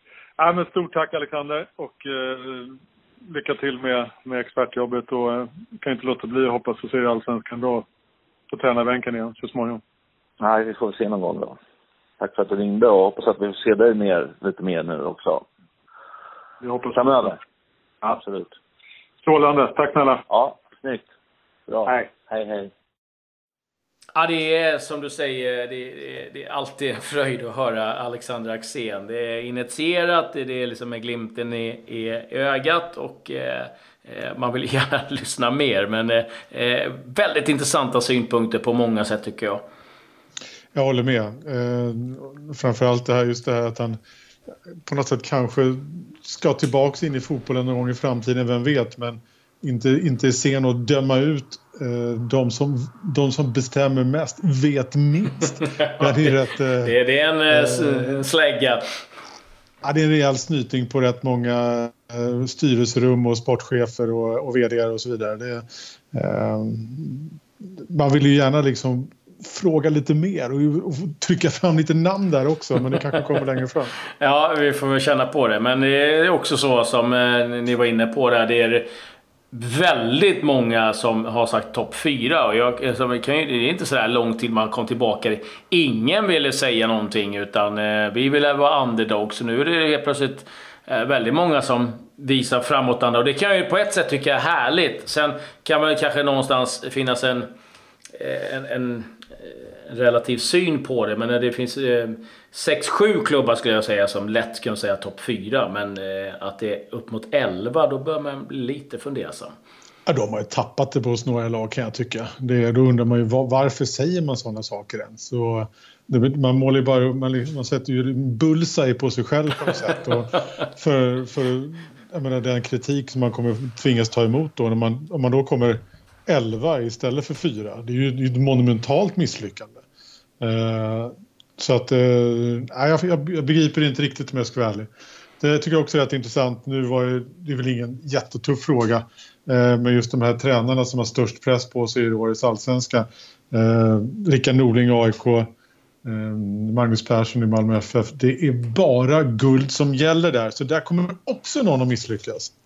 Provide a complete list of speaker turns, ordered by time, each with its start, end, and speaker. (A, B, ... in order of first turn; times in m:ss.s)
0:00.4-0:02.8 A
0:03.3-0:07.8 A
0:08.5-0:09.8 A
0:10.4-0:11.6 B
0:12.2-0:15.4 B
0:16.6-0:17.3 A
0:16.9-0:17.4 B
0:18.0-0:18.5 B
0:19.2-0:20.2 A
0:20.3-0:21.0 B
0:21.7-0:22.7 B
0:24.1-0:39.6 C
0:40.7-0:44.0 D
0:44.8-0:57.0 D
0:56.8-0:58.8 C
0:57.5-0:58.2 D
0:59.8-1:07.4 D
1:07.9-1:13.9 D
1:14.2-1:18.8 C
1:19.5-1:37.5 C
1:38.1-1:49.5 C
1:50.0-2:09.8 D
2:10.4-2:25.5 D
2:26.0-2:32.5 D